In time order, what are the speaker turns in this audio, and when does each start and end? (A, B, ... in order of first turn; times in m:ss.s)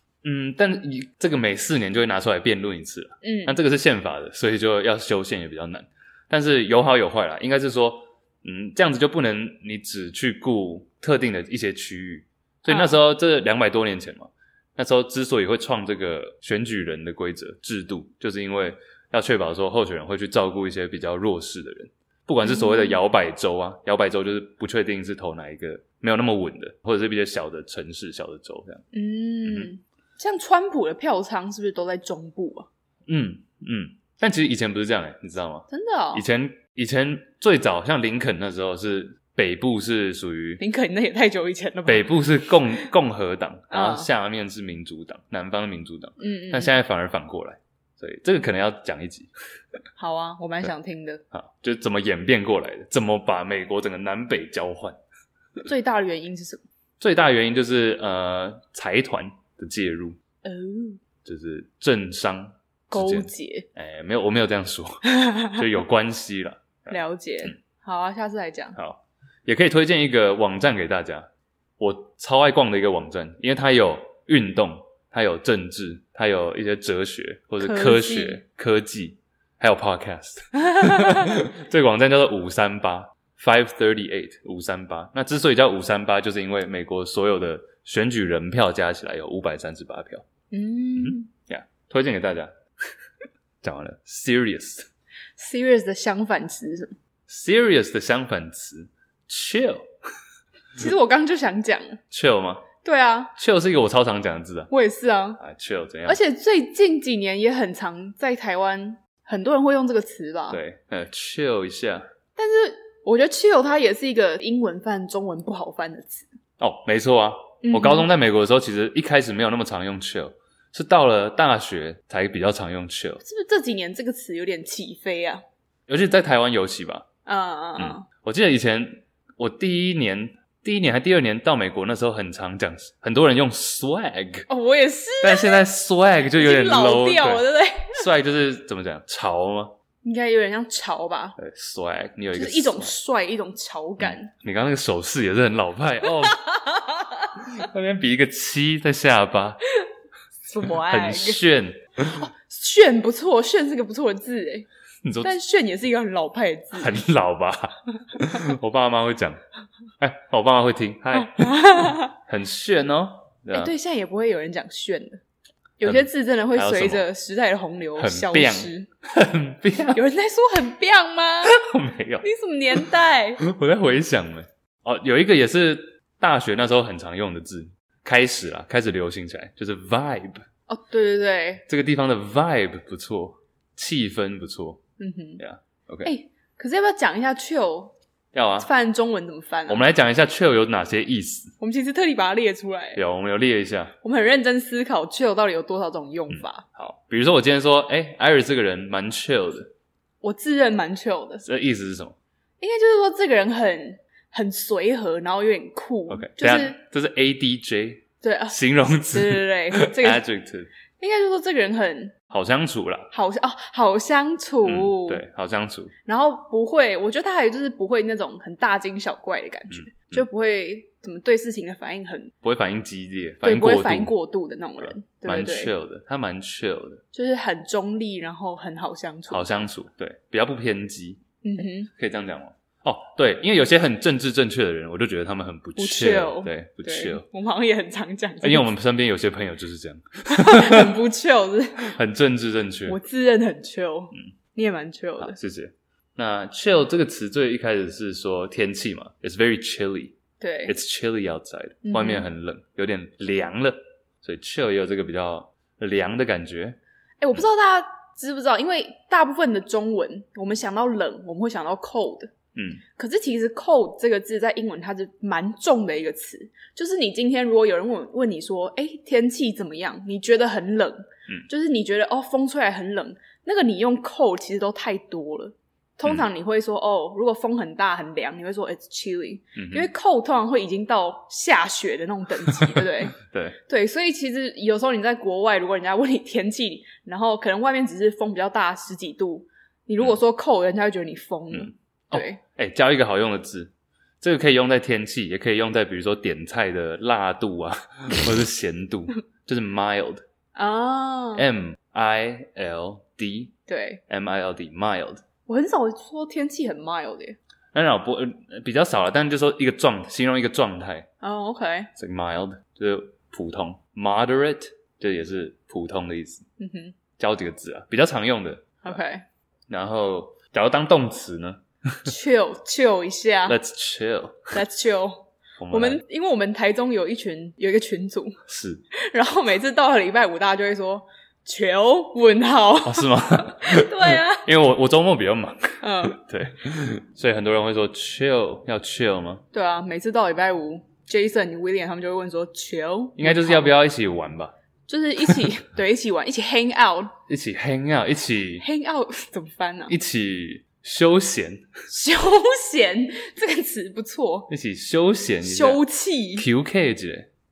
0:00.2-0:28.8 A
0:03.2-0:03.6 B
0:12.7-0:13.0 B
0:22.4-0:23.0 B
0:28.9-0:32.7 B
0:29.5-0:29.7 A
0:33.1-0:40.6 A
0:35.7-0:36.2 B
0:40.6-0:42.3 B
0:41.9-0:49.3 A
0:43.7-0:44.1 B
0:46.2-0:46.7 B
0:50.0-0:51.2 B
0:51.3-0:55.0 A
0:55.6-0:56.6 B
0:57.0-1:00.2 A
1:00.4-1:01.0 B
1:01.2-1:07.5 A
1:02.9-1:03.7 B
1:05.2-1:05.5 B
1:06.9-1:08.8 B
1:08.8-1:11.3 A
1:11.8-1:30.3 A
1:17.6-1:18.4 B
1:20.7-1:21.3 B
1:30.5-1:31.3 B
1:31.0-1:32.5 A
1:33.6-1:34.9 A
1:35.4-1:37.0 B
1:37.3-1:39.9 A
1:40.8-1:42.0 B
1:42.1-1:42.7 A
1:42.8-1:43.3 B
1:43.4-1:44.7 A
1:44.7-1:45.4 B
1:45.4-1:46.2 A
1:46.1-1:50.6 B
1:50.5-1:52.0 A
1:52.4-1:56.3 B
1:56.6-2:03.2 A
1:57.6-1:58.1 B
2:03.2-2:05.4 B
2:05.9-2:07.1 A
2:07.3-2:08.0 B
2:07.8-2:14.5 A
2:14.5-2:15.6 B
2:15.2-2:19.7 A
2:16.3-2:18.0 B
2:20.0-2:21.4 B
2:21.4-2:23.0 A
2:22.4-2:24.3 B
2:24.0-2:26.4 A
2:26.2-2:27.4 B
2:27.4-2:29.6 A
2:30.5-2:31.4 B
2:30.6-2:32.3 A
2:32.2-2:34.7 B
2:35.0-2:35.3 A
2:35.2-2:36.9 B
2:36.8-2:39.4 A
2:40.0-2:43.7 A
2:41.2-2:42.1 B
2:43.5-2:45.2 B
2:45.8-2:48.9 B
2:45.8-2:47.1 A
2:48.0-2:50.0 A
2:49.9-2:51.6 B
2:51.4-2:52.8 A
2:52.2-2:53.4 B
2:53.4-3:00.4 A
3:00.7-3:01.6 B
3:01.7-3:04.8 A
3:05.0-3:05.4 B
3:05.4-3:06.1 A
3:06.0-3:08.0 B
3:08.3-3:08.7 A
3:08.6-3:09.8 B
3:09.7-3:11.5 A
3:11.6-3:13.0 B
3:13.0-3:14.0 A
3:14.0-3:16.6 B
3:16.3-3:19.7 A
3:20.2-3:21.4 B
3:21.4-3:22.2 A
3:22.6-3:26.8 B
3:26.1-3:30.7 A
3:28.2-3:28.6 B
3:29.1-3:30.2 B
3:31.0-3:32.2 B
3:32.3-3:33.1 A
3:33.1-3:35.2 B
3:34.6-3:35.9 A
3:36.1-3:42.3 B
3:39.7-3:40.2 A
3:42.4-3:44.1 A
3:43.4-3:45.7 B
3:44.8-3:47.0 A
3:47.1-3:49.6 B
3:49.3-3:51.2 A
3:51.4-3:51.9 B
3:51.9-3:57.2 A
3:55.8-3:58.7 B
3:58.4-4:01.0 A
4:00.3-4:01.9 B
4:01.8-4:03.0 A
4:02.9-4:05.4 B
4:05.2-4:16.8 A
4:10.4-4:10.7 B
4:11.8-4:12.3 B
4:17.2-4:22.3 B
4:22.6-4:22.8 A
4:22.9-4:43.2 B
4:39.6-4:39.9 A
4:42.6-4:43.6 A
4:43.7-4:52.4 B
4:51.5-5:00.2 A
5:00.6-5:01.4 B
5:01.4-5:03.5 A
5:03.7-5:04.0 B
5:04.1-5:05.2 A
5:05.5-5:07.4 B
5:07.7-5:11.1 A
5:11.2-5:11.9 B
5:12.0-5:16.5 A
5:16.6-5:17.0 B
5:17.2-5:18.8 A
5:18.8-5:19.2 B
5:19.7-5:22.1 A
5:22.1-5:23.6 B
5:23.5-5:24.5 A
5:24.5-5:28.4 B
5:25.6-5:26.0 A
5:28.5-5:28.8 A
5:28.9-5:34.5 B
5:32.8-5:39.4 A
5:35.8-5:36.2 B
5:39.5-5:43.7 B
5:43.2-5:44.5 A
5:44.9-5:47.1 B
5:47.3-5:48.7 A
5:48.6-5:49.9 B
5:49.9-5:51.7 A
5:51.9-5:54.5 B
5:54.5-5:55.8 A
5:55.4-5:56.5 B
5:56.4-5:57.3 A